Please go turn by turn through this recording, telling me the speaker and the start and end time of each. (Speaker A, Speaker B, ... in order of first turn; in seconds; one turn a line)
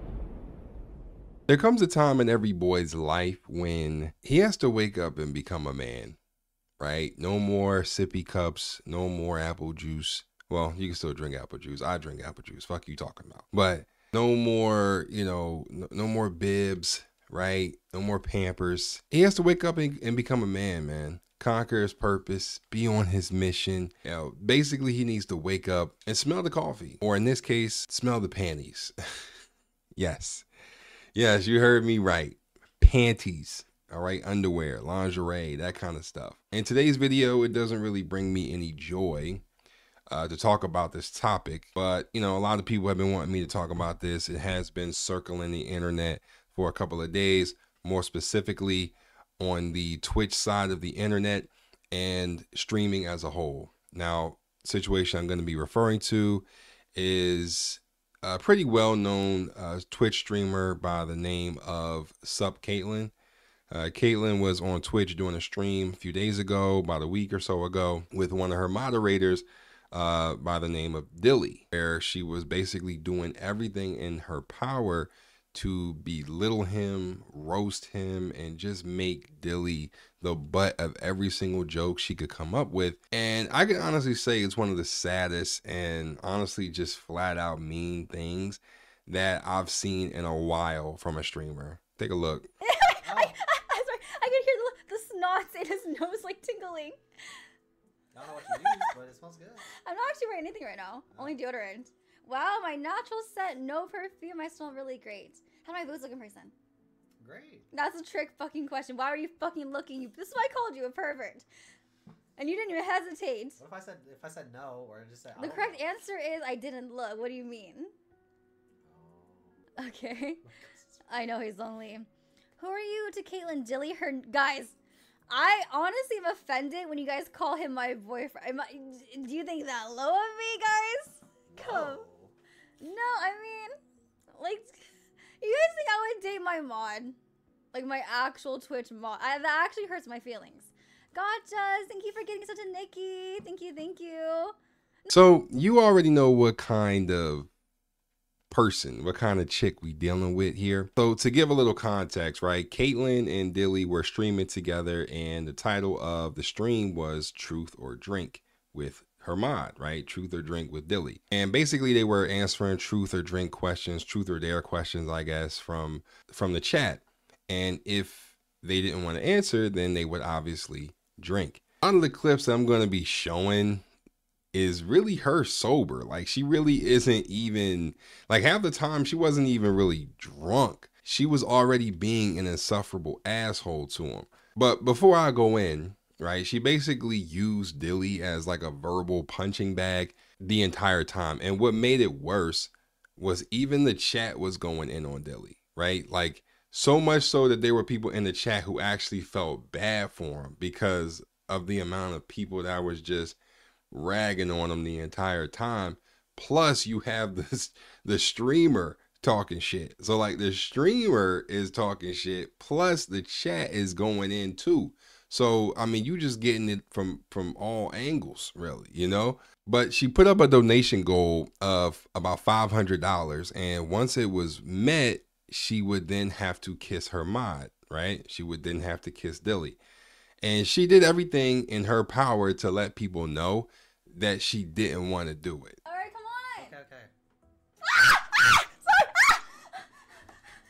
Speaker A: 1.5-6.2
Speaker A: 6.8-28.9
Speaker A: 29.9-30.4
Speaker A: 31.1-39.4
Speaker A: 40.1-63.1
Speaker A: 63.7-92.5
Speaker B: 92.6-97.0
Speaker C: 93.0-93.4
Speaker C: 98.1-99.7
Speaker B: 98.4-98.9
Speaker B: 99.7-106.5
Speaker C: 101.1-101.4
Speaker C: 107.2-107.7
Speaker B: 107.7-111.5
Speaker B: 112.4-113.6
Speaker C: 113.6-115.8
Speaker B: 115.4-117.9
Speaker C: 118.8-119.6
Speaker B: 119.8-120.4
Speaker C: 120.4-121.0
Speaker B: 121.1-122.1
Speaker B: 122.6-124.8
Speaker B: 125.3-132.1
Speaker C: 131.5-132.3
Speaker B: 132.8-133.7
Speaker B: 134.3-134.8
Speaker B: 135.4-137.2
Speaker B: 137.7-144.5
Speaker A: 145.1-147.5
Speaker A: 148.5-173.8
Speaker A: 174.5-203.4
Speaker A: 203.9-229.8
Speaker A: 230.4-235.8
Speaker B: 235.8-236.7
Speaker C: 236.6-237.1
Speaker B: 237.9-239.8